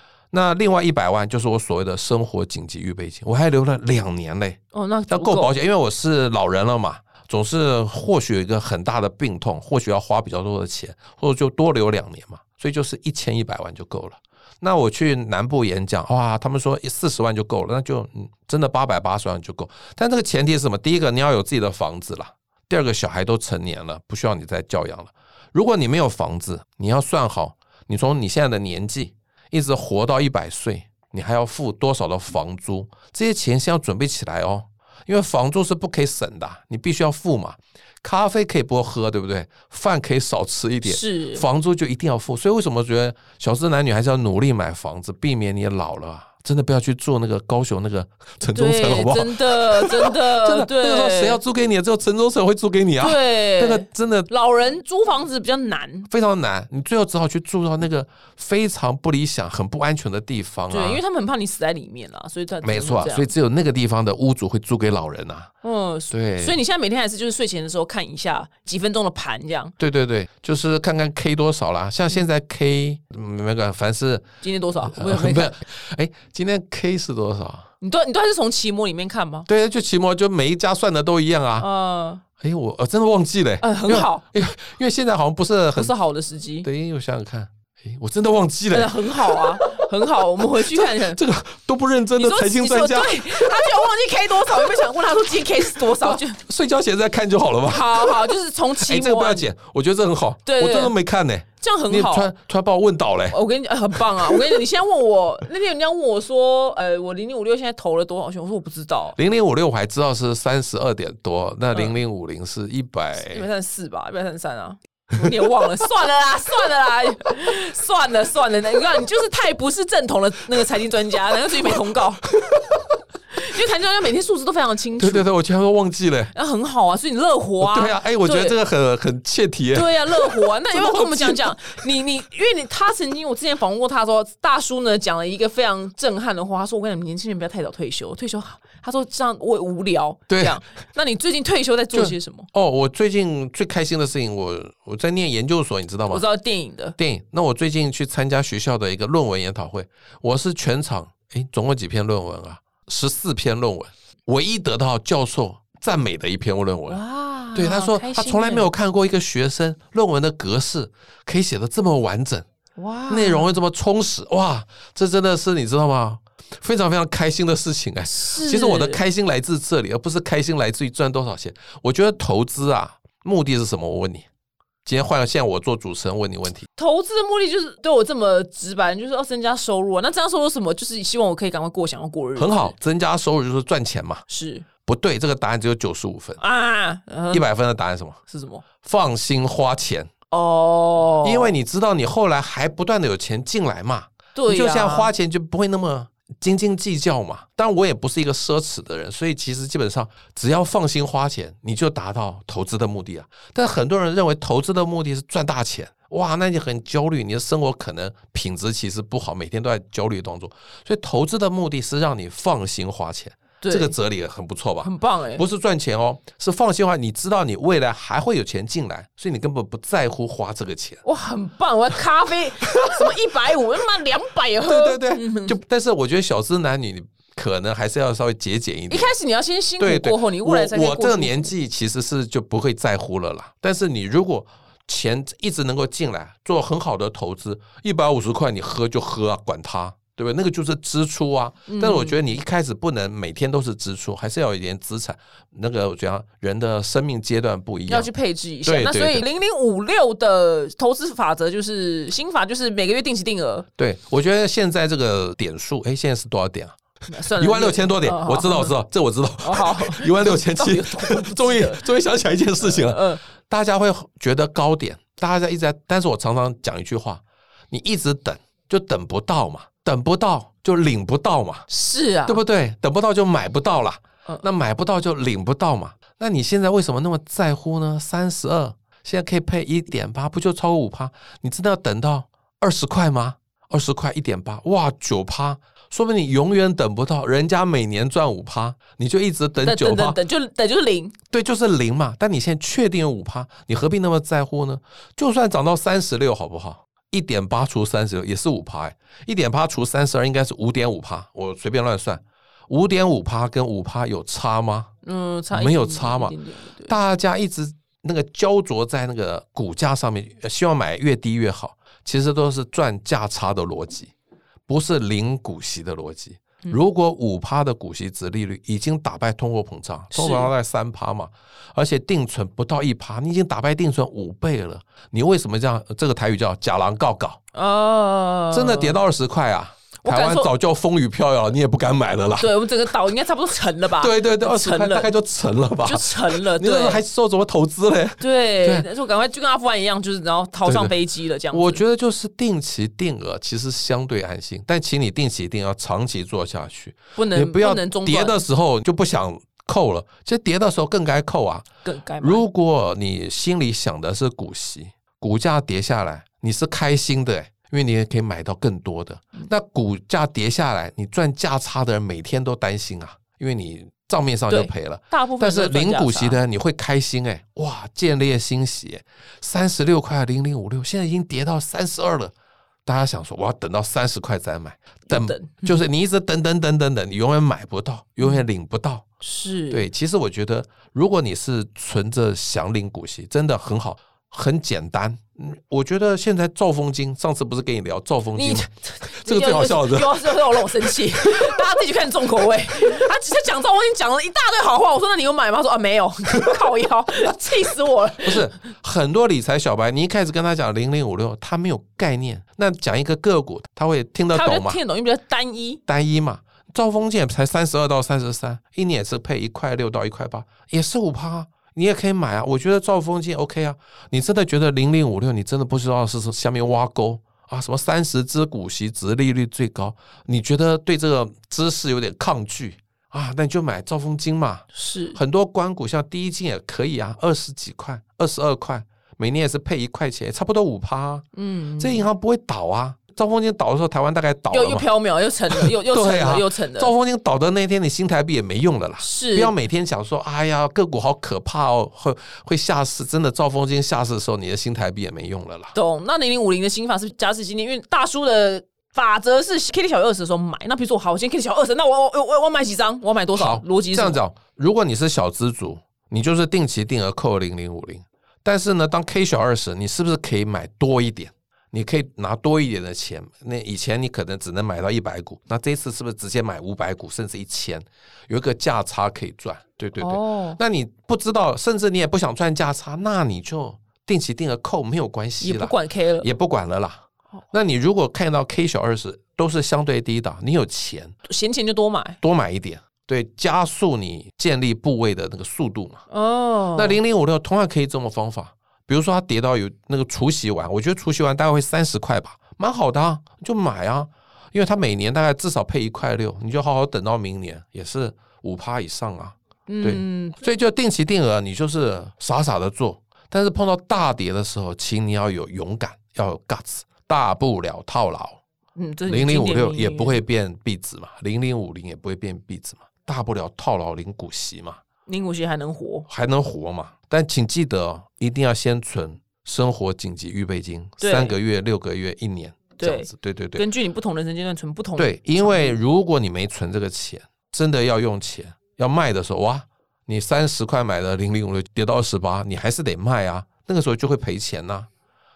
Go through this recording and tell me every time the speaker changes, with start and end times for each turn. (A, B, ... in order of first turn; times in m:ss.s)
0:00.3-0:54.3 A
0:04.7-0:05.5 B
0:40.8-0:41.4 B
0:48.5-0:51.4 B
0:53.0-0:56.1 B
0:56.1-1:01.0 A
1:00.7-1:03.3 B
1:02.6-1:05.5 A
1:05.6-1:09.7 B
1:06.1-1:06.6 A
1:09.8-1:14.3 A
1:14.4-1:15.6 B
1:14.8-1:17.7 A
1:17.8-1:19.5 B
1:19.5-1:21.7 A
1:21.6-1:22.2 B
1:22.4-1:25.9 A
1:23.6-1:24.2 B
1:25.8-1:26.7 B
1:26.6-1:33.8 A
1:28.7-1:31.2 B
1:32.2-1:36.4 B
1:34.6-1:34.9 A
1:35.7-1:43.4 A
1:37.7-1:39.5 B
1:40.4-1:40.9 B
1:41.6-1:42.3 B
1:43.3-1:49.2 B
1:43.9-1:44.6 A
1:49.2-1:53.5 A
1:53.2-2:02.3 B
2:02.3-2:02.8 A
2:03.3-2:05.3 B
2:05.0-2:06.3 A
2:06.3-2:08.6 B
2:07.6-2:11.6 A
2:09.7-2:22.5 B
2:20.3-2:20.6 A
2:21.9-2:26.2 A
2:26.1-2:27.0 B
2:27.0-2:37.0 A
2:36.9-2:38.7 B
2:37.5-2:42.4 A
2:42.8-2:43.5 B
2:43.1-2:54.2 A
2:48.0-2:49.0 B
2:54.8-2:56.7 A
2:56.8-3:02.7 B
3:02.4-3:04.2 A
3:04.3-3:04.6 B
3:04.8-3:06.4 A
3:06.4-3:07.4 B
3:07.3-3:08.2 A
3:08.3-3:08.6 B
3:08.8-3:10.1 A
3:10.3-3:11.6 B
3:11.2-3:41.0 A
3:14.3-3:15.1 B
3:33.6-3:33.9 B
3:34.8-3:35.4 B
3:41.0-3:45.5 B
3:42.6-3:43.2 A
3:44.6-3:49.1 A
3:48.9-3:51.5 B
3:49.8-4:08.1 A
4:01.7-4:02.3 B
4:07.9-4:13.7 B
4:08.6-4:09.2 A
4:13.8-4:16.8 A
4:17.1-4:18.7 B
4:17.4-4:31.7 A
4:19.4-4:21.8 B
4:22.6-4:23.2 B
4:31.7-4:32.4 B
4:32.2-4:50.2 A
4:49.6-4:51.1 B
4:51.3-5:04.9 A
5:05.0-5:06.9 B
5:05.5-5:06.4 A
5:06.9-5:14.1 A
5:14.7-5:27.4 A
5:20.1-5:20.5 B
5:27.5-5:29.0 B
5:28.5-5:32.6 A
5:30.0-5:30.5 B
5:32.4-5:35.1 B
5:34.0-5:38.9 A
5:35.8-5:37.0 B
5:38.2-5:41.8 B
5:40.6-5:40.9 A
5:41.5-5:51.7 A
5:47.2-5:48.4 B
5:51.8-5:52.4 B
5:52.2-6:12.3 A
6:04.5-6:06.4 B
6:12.8-6:19.0 A
6:15.1-6:15.7 B
6:19.2-6:19.9 B
6:19.7-6:31.6 A
6:28.4-6:38.5 B
6:38.2-6:44.8 A
6:44.3-6:45.8 B
6:45.9-7:11.2 A
7:04.7-7:05.2 B
7:11.3-7:12.0 B
7:11.8-7:14.9 A
7:14.5-7:16.9 B
7:15.5-7:25.7 A
7:19.0-7:19.5 B
7:25.7-7:34.2 B
7:33.3-8:01.1 A
7:50.0-7:50.6 B
7:55.4-7:56.3 B
8:01.3-8:02.2 B
8:02.2-8:06.0 A
8:06.1-8:07.0 B
8:06.7-8:28.4 A
8:19.7-8:20.4 B
8:28.8-8:30.2 B
8:29.1-8:34.8 A
8:35.0-8:36.1 B
8:36.1-8:43.6 A
8:41.0-8:41.4 B
8:42.8-8:45.7 B
8:45.0-8:54.9 A